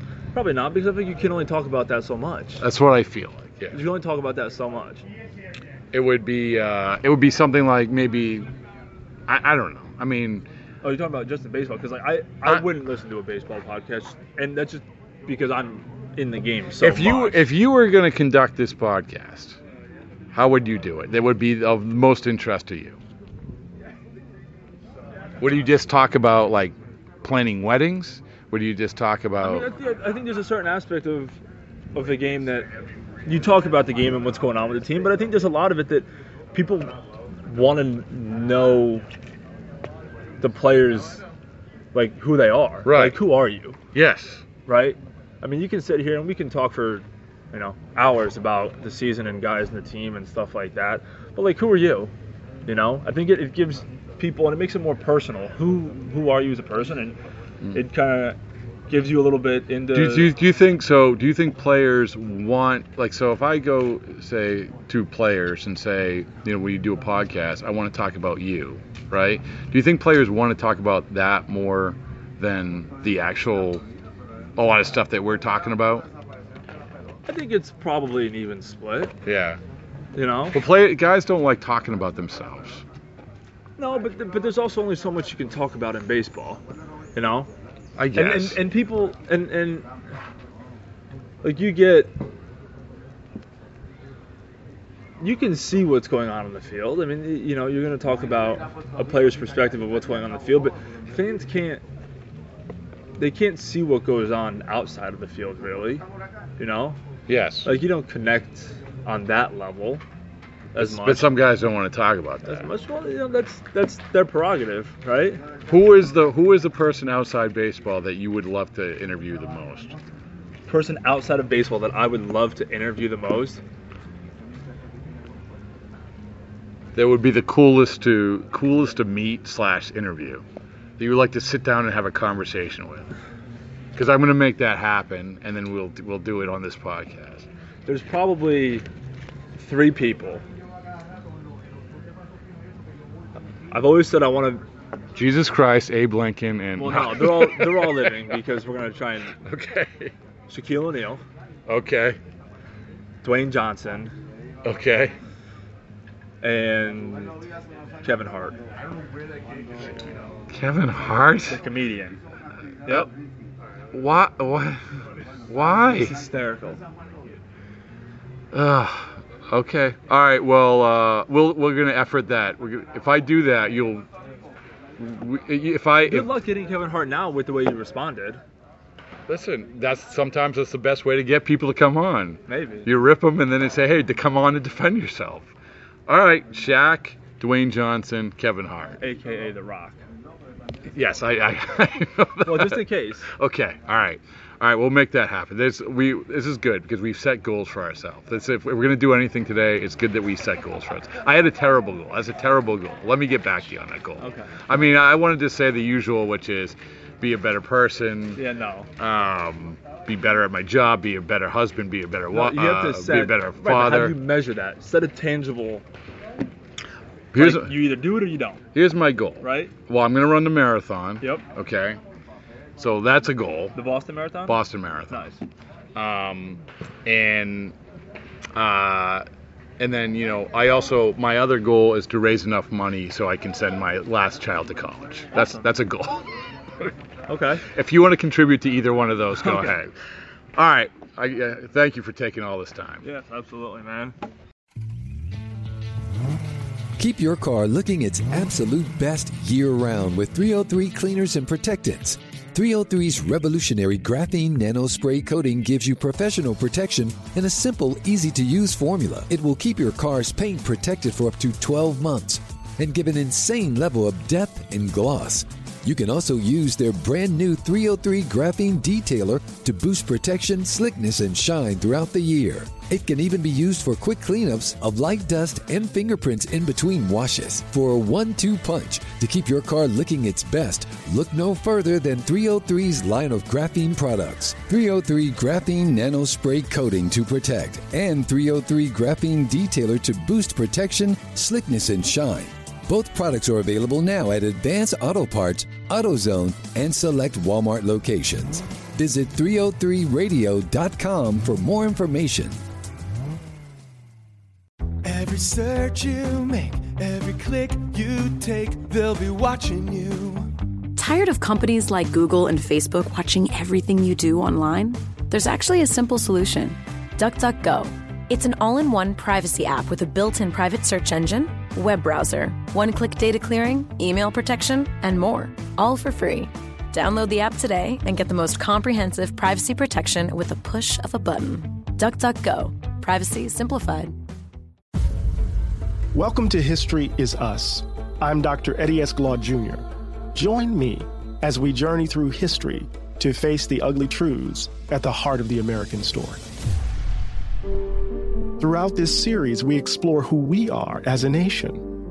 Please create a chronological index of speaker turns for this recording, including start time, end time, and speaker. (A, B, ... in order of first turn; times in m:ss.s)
0:00.3-0:02.6 A
0:02.6-0:03.8 B
0:03.7-0:05.0 A
0:05.9-0:08.5 B
0:09.3-0:10.4 B
0:10.8-0:17.4 A
0:16.8-0:19.6 B
0:20.3-0:23.0 B
0:25.4-0:29.7 B
0:29.4-0:31.4 A
0:31.9-0:32.7 A
0:33.3-0:36.9 A
0:37.5-0:39.1 A
0:40.4-0:41.2 A
0:41.9-0:43.8 A
0:42.8-0:43.2 B
0:43.9-0:44.4 B
0:44.7-0:52.1 A
0:52.7-0:57.2 A
0:57.7-0:58.4 A
0:58.9-1:00.3 A
0:59.9-1:13.8 B
1:14.6-1:16.1 B
1:17.3-1:19.2 A
1:19.2-1:19.6 B
1:20.2-1:20.6 A
1:20.5-1:22.8 B
1:23.8-1:26.6 A
1:27.2-1:27.5 A
1:28.0-1:28.6 B
1:28.1-1:29.9 A
1:31.4-1:32.2 A
1:35.2-1:41.8 A
1:43.2-1:46.0 A
1:46.6-1:47.0 A
1:47.3-1:47.7 B
1:47.6-1:50.0 A
1:50.7-1:51.3 A
1:50.8-1:52.6 B
1:52.4-1:55.4 A
1:55.7-1:59.9 B
2:00.7-2:03.6 A
2:07.0-2:10.4 B
2:11.0-2:13.1 B
2:14.0-2:17.5 B
2:17.9-2:18.9 A
2:19.6-2:20.4 A
2:23.7-2:24.6 A
2:25.2-2:28.2 B
2:26.8-2:29.4 A
2:29.4-2:30.1 B
2:30.5-2:31.2 A
2:31.7-2:32.2 B
2:33.2-2:34.1 A
2:34.6-2:35.1 B
2:36.4-2:37.4 A
2:38.0-2:38.6 A
2:40.5-2:41.6 B
2:41.5-2:42.2 A
2:43.9-2:44.8 B
2:45.5-2:46.1 B
2:45.9-2:46.8 A
2:48.5-2:54.1 B
2:55.0-2:56.3 B
2:56.0-2:58.4 A
2:59.3-3:05.5 B
3:02.5-3:02.9 A
3:06.1-3:09.0 B
3:09.0-3:10.0 A
3:10.9-3:28.4 B
3:12.4-3:13.3 A
3:24.2-3:24.6 A
3:28.4-3:28.9 A
3:29.0-3:34.2 B
3:32.3-3:35.8 A
3:37.3-3:38.0 B
3:37.4-3:38.6 A
3:38.7-3:42.0 B
3:39.4-3:39.7 A
3:42.8-3:43.8 B
3:43.7-3:44.6 A
3:44.5-3:45.3 B
3:45.1-3:45.4 A
3:46.0-3:47.8 B
3:48.5-3:49.3 B
3:49.8-3:56.3 B
3:55.3-3:55.7 A
3:57.3-3:57.6 A
3:57.6-3:59.9 B
4:00.6-4:03.0 B
4:03.0-4:04.2 A
4:07.0-5:02.6 C
5:05.0-5:10.5 D
5:11.0-5:34.1 E
5:36.1-5:46.4 F
5:48.6-5:51.8 F